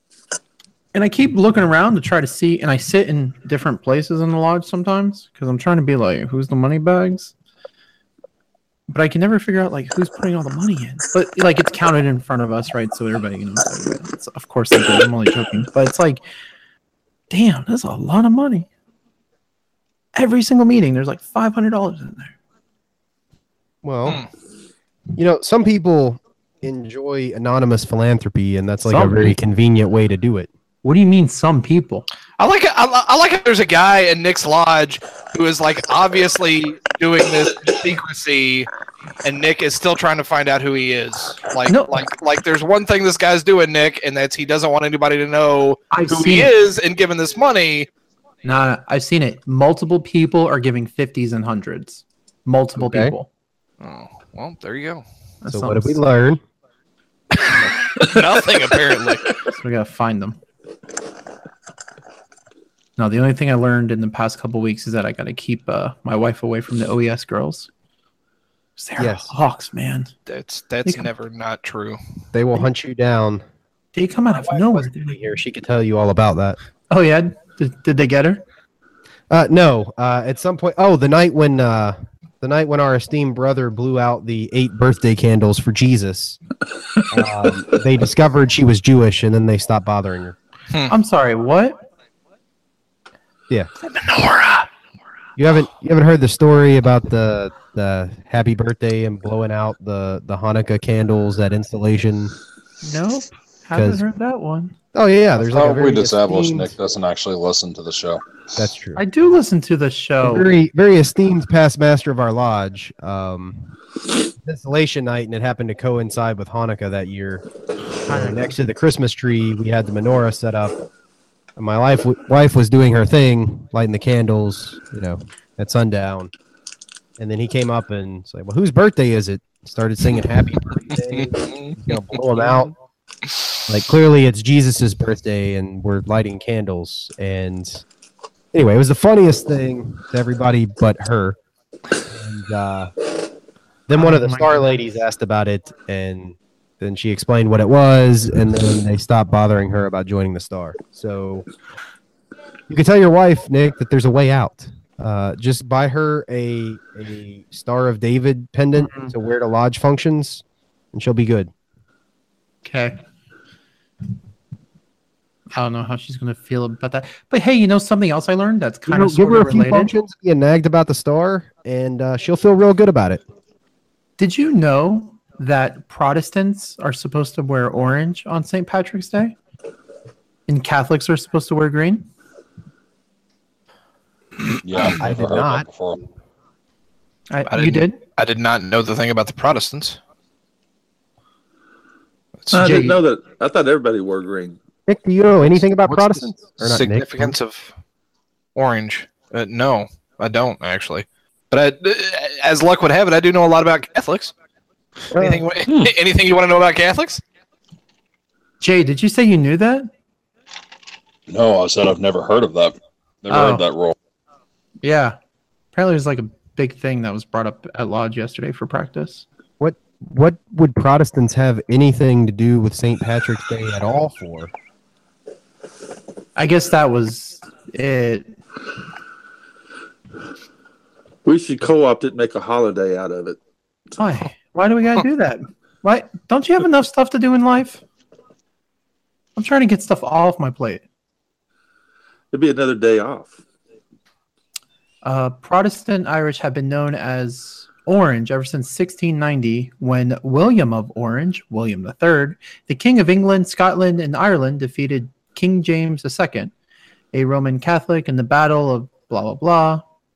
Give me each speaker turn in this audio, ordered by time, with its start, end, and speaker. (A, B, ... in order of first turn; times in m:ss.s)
0:00.9-0:07.3 A
0:08.9-0:16.2 A
0:17.3-0:18.7 A
0:20.2-0:22.4 A
0:23.8-0:24.2 B
0:25.2-0:30.5 B
0:28.9-0:29.4 A
0:30.8-0:32.1 A
0:32.4-0:38.7 C
0:39.2-0:47.9 C
0:41.7-0:42.1 A
0:45.9-0:46.5 A
0:48.4-0:53.3 A
0:52.8-0:53.2 B
0:53.8-0:55.0 C
0:55.4-0:56.0 A
0:55.5-0:56.4 B
0:57.4-0:59.4 C
0:59.5-1:00.4 A
1:03.0-1:07.7 A
1:08.8-1:10.1 A
1:09.0-1:09.3 B
1:10.3-1:12.0 C
1:12.3-1:13.4 B
1:14.0-1:15.2 A
1:14.3-1:16.6 B
1:16.9-1:18.4 A
1:19.3-1:26.4 B
1:27.1-1:30.4 B
1:30.9-1:31.8 A
1:33.9-1:34.7 C
1:35.4-1:42.4 B
1:42.8-1:44.8 A
1:43.7-1:44.0 B
1:44.9-1:46.8 B
1:45.5-1:48.2 D
1:48.6-1:49.0 B
1:49.0-1:50.5 A
1:50.2-1:53.8 B
1:54.4-1:57.4 B
1:58.1-1:58.5 A
1:58.1-2:00.8 B
2:01.6-2:06.3 B
2:07.2-2:12.7 B
2:11.1-2:12.7 C
2:13.7-2:17.8 B
2:18.5-2:21.4 B
2:22.1-2:22.9 B
2:23.9-2:31.5 B
2:24.0-2:24.9 A
2:32.7-2:41.5 B
2:38.8-2:39.1 A
2:42.6-2:43.0 A
2:45.5-2:49.9 A
2:48.9-2:53.2 B
2:54.2-2:59.4 A
3:00.5-3:02.1 A
3:04.6-3:06.0 D
3:04.8-3:05.7 B
3:07.3-3:08.0 A
3:07.5-3:10.0 C
3:12.4-3:12.8 C
3:12.5-3:14.6 E
3:12.5-3:13.0 A
3:14.9-3:17.4 B
3:15.8-3:17.7 C
3:18.6-3:24.3 C
3:25.1-3:25.5 B
3:25.2-3:27.2 C
3:28.6-3:29.9 A
3:31.3-3:34.0 D
3:33.3-3:33.6 A
3:34.8-3:35.2 A
3:35.7-3:39.2 A
3:39.6-3:44.5 B
3:46.4-3:48.3 A
3:51.2-3:53.4 E
3:54.0-3:57.8 A
3:59.4-4:00.8 A
4:02.3-4:03.4 E
4:05.0-4:16.5 A
4:17.1-4:19.8 A